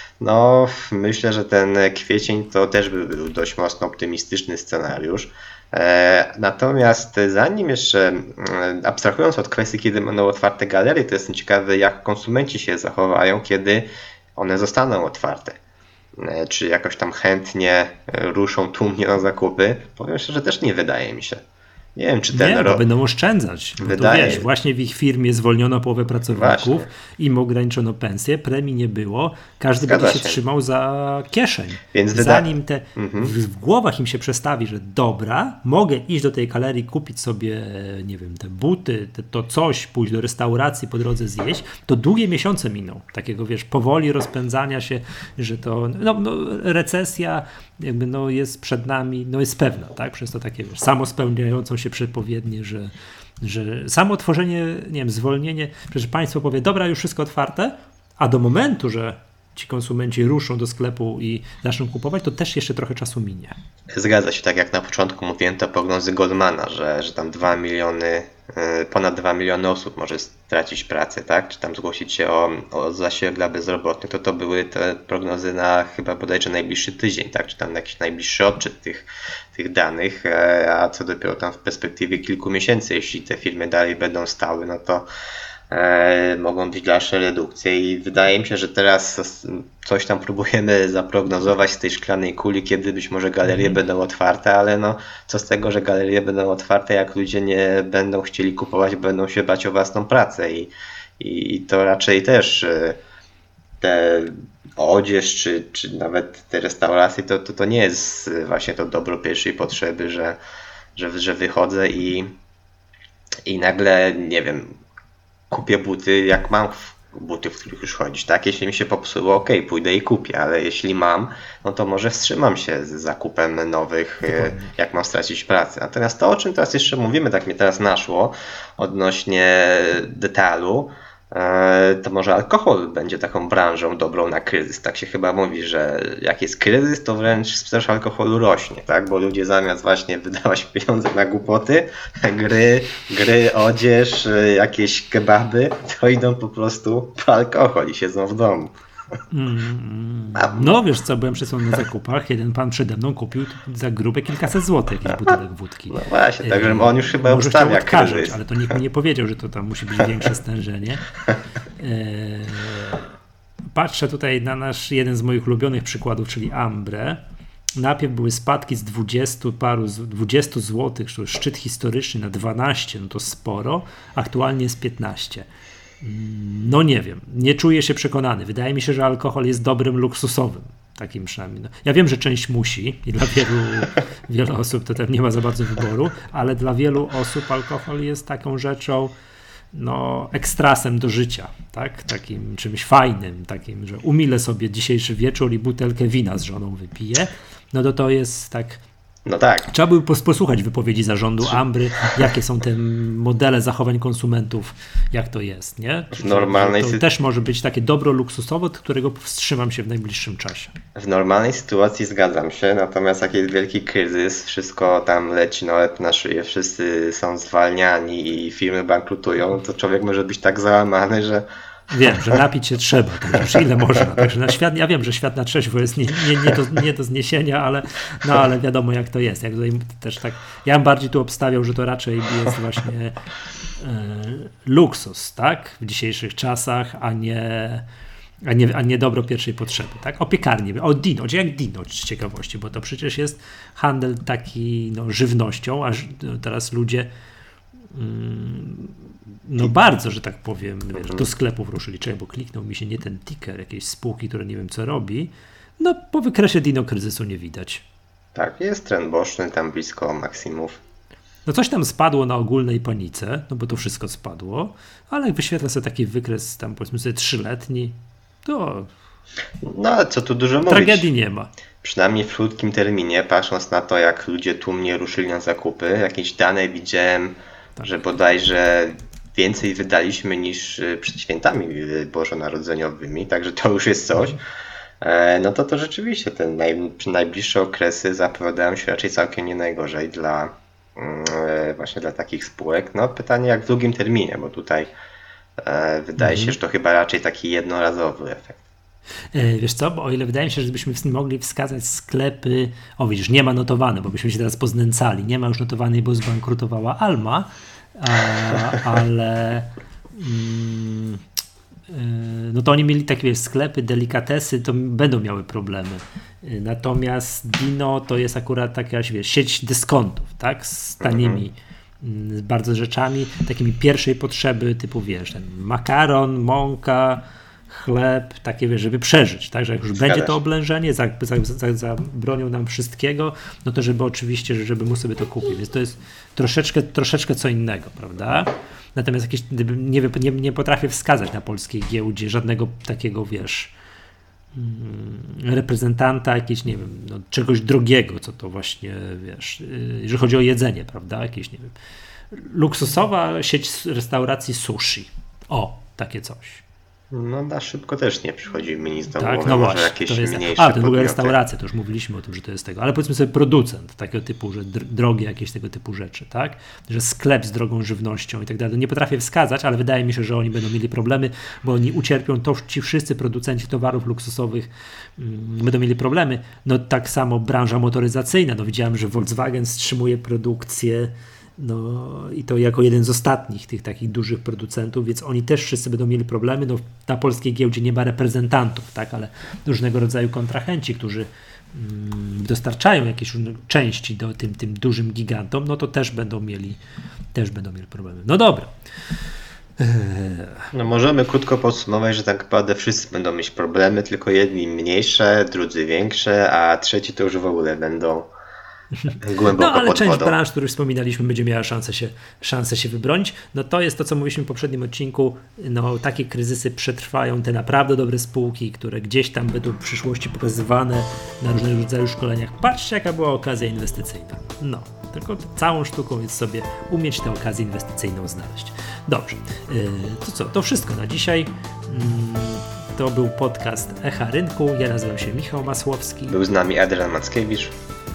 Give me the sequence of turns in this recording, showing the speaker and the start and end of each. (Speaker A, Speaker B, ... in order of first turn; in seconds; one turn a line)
Speaker A: 0.2-15.6
Speaker A: 16.1-21.4
Speaker A: 21.9-22.8
Speaker B: 22.3-52.9
Speaker A: 23.8-24.5
Speaker A: 26.3-26.9
Speaker A: 29.8-30.4
Speaker A: 31.9-33.3
Speaker B: 53.4-63.5
Speaker A: 63.9-85.0
Speaker A: 85.7-103.0
Speaker B: 93.5-93.8
Speaker A: 103.8-110.4
Speaker A: 110.9-112.3
Speaker A: 113.5-114.7
Speaker A: 115.5-148.7
Speaker B: 124.2-124.7
Speaker B: 149.3-161.1
Speaker A: 150.3-150.8
Speaker A: 155.1-155.3
Speaker A: 155.9-158.8
Speaker B: 161.8-163.0
Speaker B: 163.7-167.2
Speaker B: 167.8-175.4
Speaker B: 176.0-189.1
Speaker B: 189.7-198.8
Speaker A: 199.2-199.7
Speaker B: 199.7-210.8
Speaker A: 206.1-207.0
Speaker A: 210.9-221.4
Speaker B: 221.9-233.1
Speaker A: 222.1-222.4
Speaker A: 223.4-224.2
Speaker B: 233.8-237.8
Speaker B: 238.4-247.1
Speaker B: 247.9-257.8
Speaker A: 258.3-260.8
Speaker B: 261.4-268.9
Speaker A: 269.6-271.1
Speaker B: 270.7-271.5
Speaker A: 271.8-284.4
Speaker A: 285.0-294.9
Speaker A: 295.6-298.6
Speaker B: 296.2-296.6
Speaker B: 299.3-311.2
Speaker B: 311.9-343.7
Speaker A: 321.0-321.4
Speaker A: 329.9-330.4
Speaker B: 344.5-351.7
Speaker B: 352.3-356.6
Speaker A: 357.1-361.4
Speaker B: 359.1-396.8
Speaker B: 397.3-398.7
Speaker B: 399.8-400.7
Speaker A: 400.7-408.3
Speaker B: 409.0-436.4
Speaker A: 409.2-410.3
Speaker A: 436.3-437.7